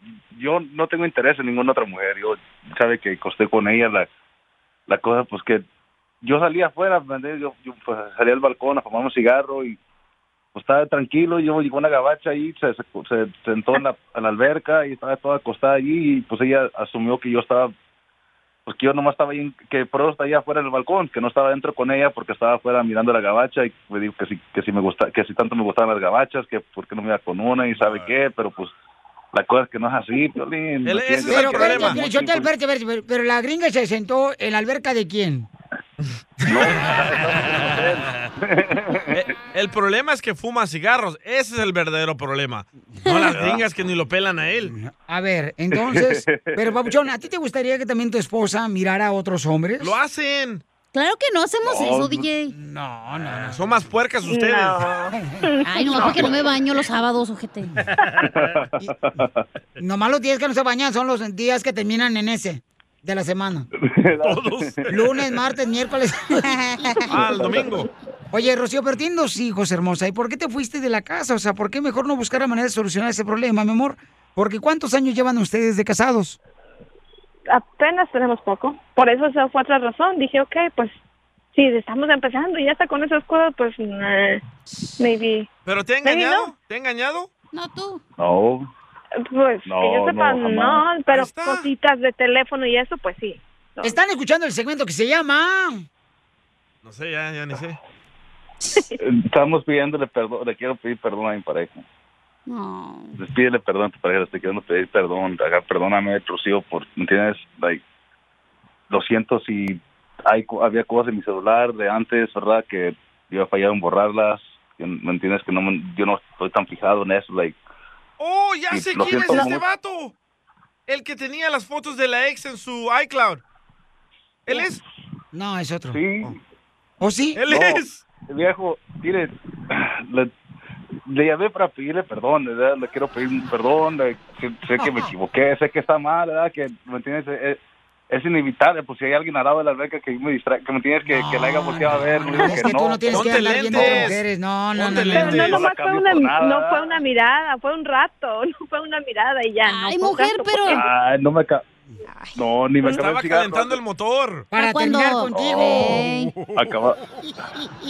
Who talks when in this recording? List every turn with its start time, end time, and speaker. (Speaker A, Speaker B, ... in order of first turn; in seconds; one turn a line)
Speaker A: 0.3-4.1
Speaker A: 4.9-5.6
Speaker A: 6.2-9.8
Speaker A: 10.6-17.7
Speaker A: 18.7-28.7
Speaker B: 27.8-28.1
Speaker A: 29.3-32.5
Speaker B: 30.9-32.0
Speaker C: 31.3-35.5
Speaker A: 36.4-39.2
Speaker B: 39.1-44.7
Speaker C: 44.8-50.0
Speaker A: 45.7-46.9
Speaker B: 49.8-50.6
Speaker D: 50.9-52.5
Speaker A: 51.6-52.2
Speaker C: 52.5-53.6
Speaker B: 53.5-54.9
Speaker E: 54.3-56.3
Speaker D: 55.6-57.7
Speaker A: 58.2-59.2
Speaker C: 59.8-63.7
Speaker A: 63.8-64.8
Speaker B: 64.2-65.0
Speaker C: 64.9-66.5
Speaker B: 67.1-67.9
Speaker C: 68.3-76.4
Speaker E: 77.5-81.0
Speaker E: 81.5-84.4
Speaker E: 85.0-85.5
Speaker B: 85.7-87.3
Speaker E: 86.0-86.5
Speaker D: 87.5-88.0
Speaker A: 88.2-88.6
Speaker E: 89.2-94.0
Speaker A: 89.7-90.9
Speaker B: 91.1-91.7
Speaker C: 93.8-95.8
Speaker B: 96.8-97.8
Speaker A: 99.0-101.8
Speaker D: 102.5-103.1
Speaker A: 103.2-107.8
Speaker A: 108.9-117.6
Speaker B: 118.2-120.1
Speaker A: 118.7-119.6
Speaker B: 120.9-123.4
Speaker B: 124.5-124.8
Speaker C: 125.3-126.0
Speaker A: 125.9-126.3
Speaker C: 127.0-127.4
Speaker B: 127.4-128.0
Speaker A: 127.5-129.3
Speaker A: 130.1-130.3
Speaker A: 131.1-137.6
Speaker A: 138.1-143.9
Speaker C: 141.1-145.4
Speaker B: 143.1-144.2
Speaker B: 144.8-145.7
Speaker E: 145.0-150.8
Speaker A: 145.3-146.9
Speaker D: 149.6-150.8
Speaker A: 150.7-151.6
Speaker A: 152.4-153.8
Speaker B: 152.8-154.5
Speaker C: 154.5-156.1
Speaker D: 154.6-156.3
Speaker A: 155.3-155.9
Speaker B: 156.2-156.7
Speaker A: 156.5-157.0